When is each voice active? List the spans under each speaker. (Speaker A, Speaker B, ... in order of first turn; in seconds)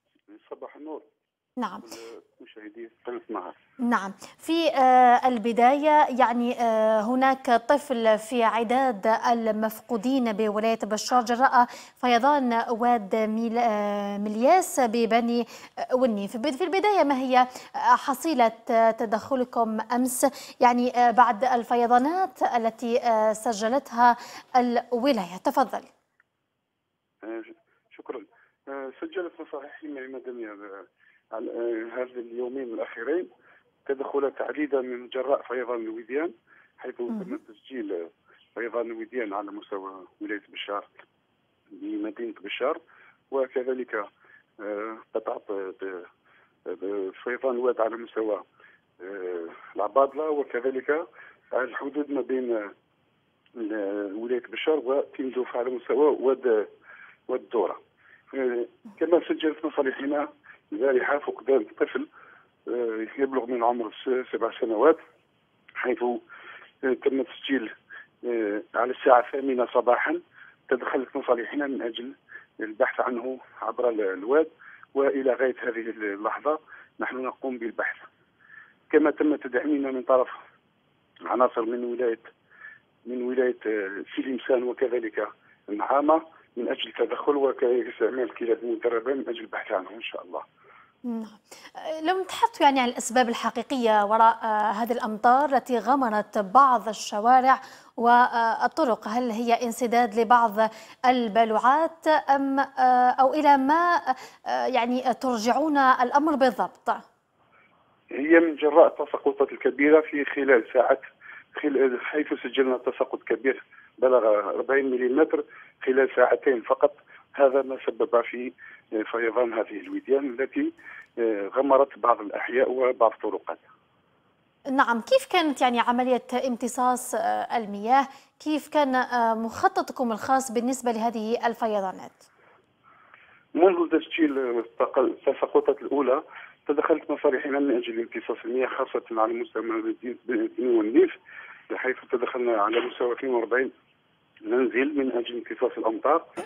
Speaker A: 0.3-1.0, 1.8-3.5, 27.2-33.3, 33.9-41.0, 41.7-42.8, 43.3-44.1, 44.6-46.1, 46.6-48.4, 49.0-52.7, 53.6-56.7, 57.3-57.8, 58.3-62.1, 62.7-65.0, 65.8-66.2, 66.8-78.1, 78.9-80.4, 81.2-82.2, 83.0-90.4, 108.1-123.6, 133.6-141.2, 141.7-143.7, 144.5-146.3
Speaker B: 1.6-1.8, 3.8-25.9, 37.1-37.4, 91.0-107.0, 124.7-132.2